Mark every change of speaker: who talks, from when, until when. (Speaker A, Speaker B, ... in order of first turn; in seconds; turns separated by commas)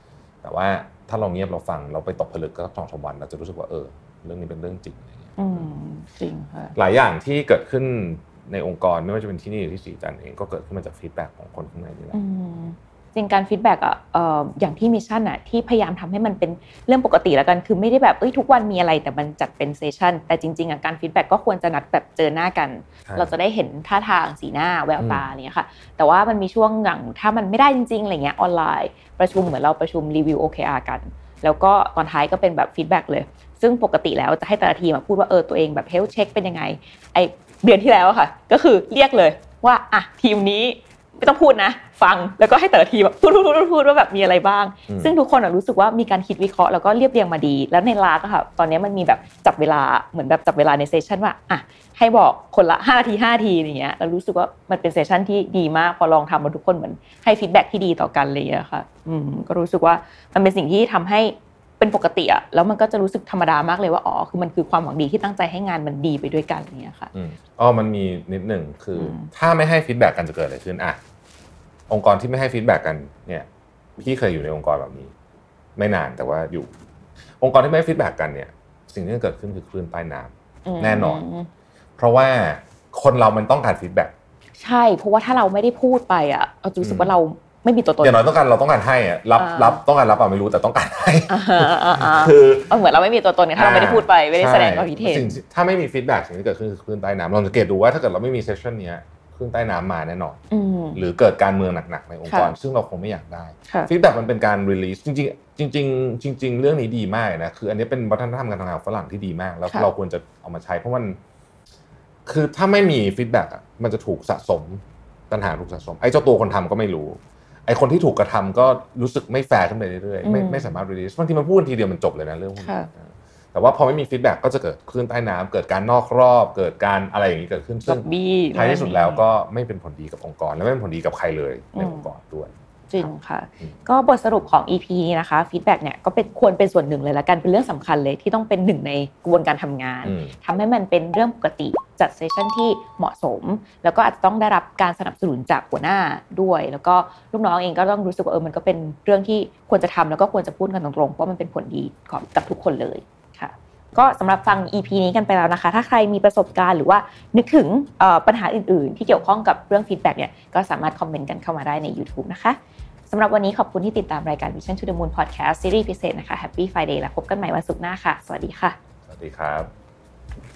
Speaker A: 0.4-5.7, Speaker B: 5.4-6.8, Speaker A: 6.8-12.2, Speaker B: 12.1-67.1, Speaker A: 23.1-23.3, Speaker A: 25.0-25.2, Speaker A: 44.9-45.1, Speaker A: 67.1-71.0, Speaker B: 68.9-69.3, Speaker A: 71.9-73.5, Speaker A: 74.0-75.1, Speaker A: 75.8-76.7, Speaker A: 77.4-81.2, Speaker B: 80.7-81.5, Speaker A: 82.0-84.1, Speaker B: 84.6-88.2, Speaker A: 86.8-87.1, Speaker A: 88.0-92.7, Speaker B: 89.3-89.8, Speaker B: 91.3-95.4, Speaker A: 93.5-100.4, Speaker B: 100.5-101.0, Speaker A: 100.9-111.2, Speaker B: 102.3-102.5, Speaker A: 112.2-132.5, Speaker B: 120.2-120.8, Speaker B: 122.6-122.9, Speaker B: 127.8-129.2, Speaker B: 131.7-132.1, Speaker B: 132.9-162.6, Speaker A: 140.0-140.3, Speaker B: 163.1-168.8, Speaker A: 169.1-169.7